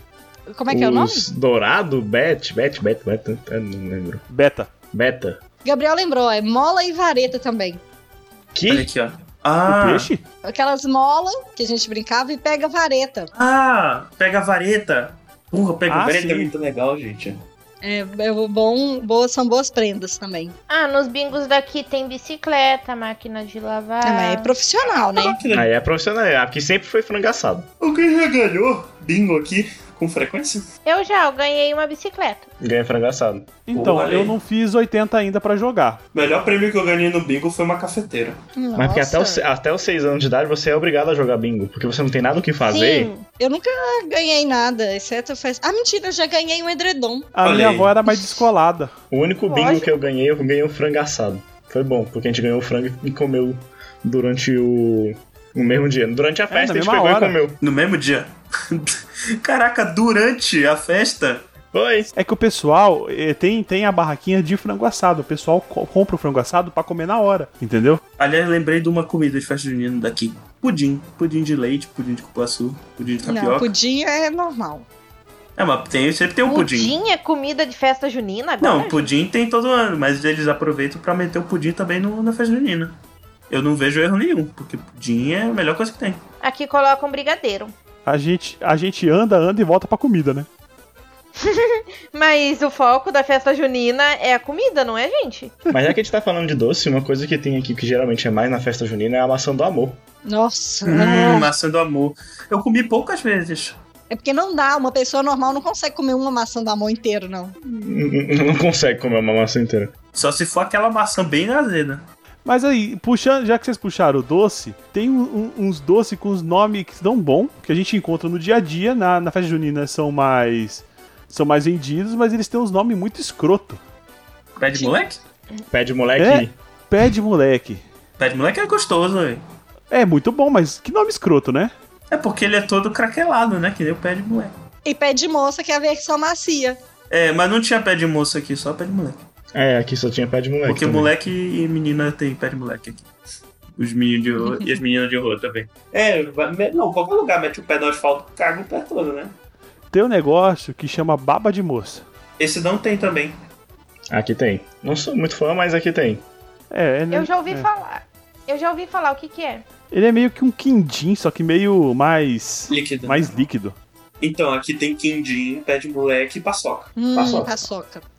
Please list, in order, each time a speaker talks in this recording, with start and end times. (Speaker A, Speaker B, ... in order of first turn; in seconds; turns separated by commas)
Speaker A: 0.5-1.3, Speaker B: 0.7-4.2, Speaker C: 4.3-4.7, Speaker B: 4.9-5.4, Speaker A: 5.7-7.8, Speaker B: 8.6-8.9, Speaker D: 8.7-10.1, Speaker C: 9.7-10.2, Speaker A: 10.4-13.3, Speaker D: 13.3-17.4, Speaker C: 15.9-16.5, Speaker A: 17.8-20.6, Speaker E: 20.7-24.5, Speaker A: 24.0-25.4, Speaker D: 25.1-25.7, Speaker B: 25.5-27.7, Speaker D: 27.8-30.6, Speaker E: 30.9-32.5, Speaker B: 32.6-33.5, Speaker C: 33.7-36.0, Speaker D: 33.7-34.4, Speaker D: 36.1-38.4, Speaker A: 38.6-39.4, Speaker B: 38.8-43.1, Speaker E: 42.6-43.2, Speaker A: 43.4-47.3, Speaker C: 47.4-48.9, Speaker D: 47.4-47.9, Speaker B: 49.1-57.6, Speaker E: 49.5-49.9, Speaker C: 56.5-57.4, Speaker D: 57.6-61.4, Speaker B: 61.7-62.1, Speaker C: 62.2-68.0, Speaker D: 68.2-73.7, Speaker A: 73.2-74.9, Speaker D: 75.6-76.9, Speaker E: 76.5-79.1, Speaker D: 78.6-83.0, Speaker D: 83.5-86.2, Speaker E: 86.4-87.7, Speaker C: 88.1-90.5, Speaker E: 91.4-95.5, Speaker B: 95.7-100.0, Speaker A: 100.3-101.5, Speaker D: 100.8-103.8, Speaker A: 104.1-107.5, Speaker B: 107.6-109.9, Speaker D: 110.2-112.0, Speaker C: 112.5-123.8, Speaker D: 124.6-125.2, Speaker B: 125.7-126.5, Speaker C: 126.2-127.8, Speaker D: 128.2-129.4, Speaker C: 129.9-131.7, Speaker D: 132.1-134.5, Speaker A: 134.8-136.8, Speaker D: 137.1-139.2, Speaker B: 139.5-141.1, Speaker D: 140.7-143.1, Speaker D: 143.8-149.3, Speaker C: 149.9-152.1, Speaker D: 152.4-153.3, Speaker B: 154.1-156.2, Speaker C: 156.7-157.7, Speaker E: 157.1-159.7, Speaker C: 159.9-163.8, Speaker D: 162.7-163.2, Speaker D: 164.2-167.6, Speaker A: 167.0-168.1